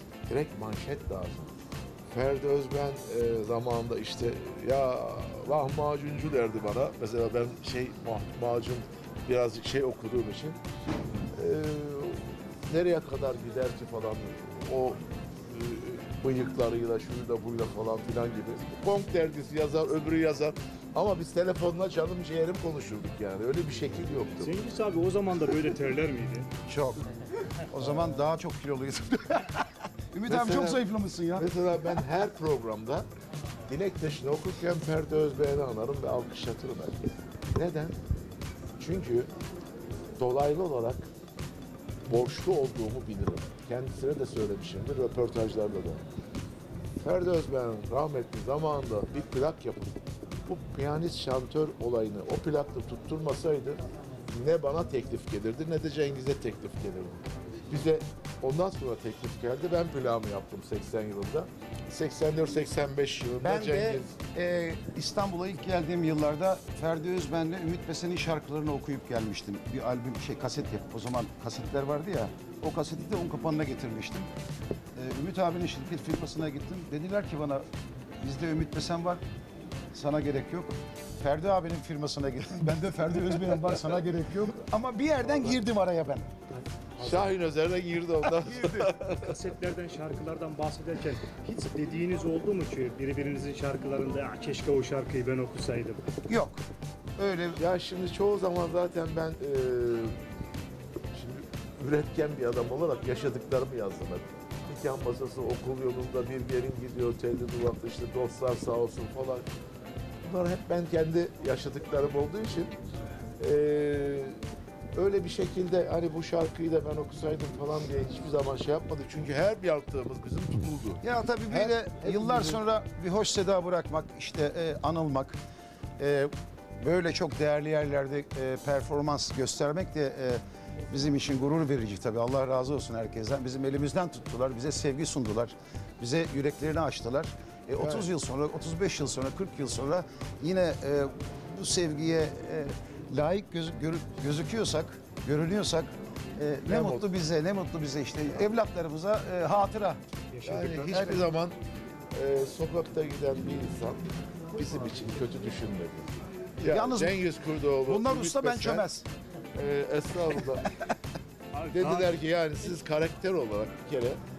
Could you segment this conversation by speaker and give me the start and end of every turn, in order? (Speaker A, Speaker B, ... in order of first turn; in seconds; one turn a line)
Speaker A: 0.3-1.5
Speaker A: 2.1-10.6
Speaker A: 11.3-24.6
Speaker B: 24.4-26.5
Speaker C: 26.7-27.1
Speaker C: 27.7-31.5
Speaker A: 30.3-30.8
Speaker A: 31.4-33.1
Speaker A: 33.7-37.0
Speaker A: 37.5-38.0
Speaker A: 38.8-39.3
Speaker A: 40.2-41.1
Speaker A: 42.1-46.0
Speaker A: 47.0-64.1
Speaker C: 63.4-74.3
Speaker C: 75.0-77.7
Speaker C: 78.2-79.2
Speaker C: 79.9-86.3
Speaker B: 86.8-87.3
Speaker A: 87.0-89.3
Speaker C: 88.5-88.9
Speaker B: 89.1-96.0
Speaker C: 96.3-96.6
Speaker C: 97.2-97.6
Speaker A: 97.6-100.2
Speaker A: 101.1-109.5
Speaker A: 110.2-112.8
Speaker A: 113.4-114.4
Speaker A: 114.9-122.6
Speaker C: 121.0-125.4
Speaker C: 126.0-150.0
Speaker A: 137.8-138.1
Speaker A: 146.7-147.1
Speaker B: 150.3-151.2
Speaker A: 150.4-151.6
Speaker A: 152.1-158.9
Speaker C: 156.7-157.2
Speaker C: 157.9-159.1
Speaker A: 159.5-160.8
Speaker B: 161.5-162.2
Speaker A: 161.7-164.2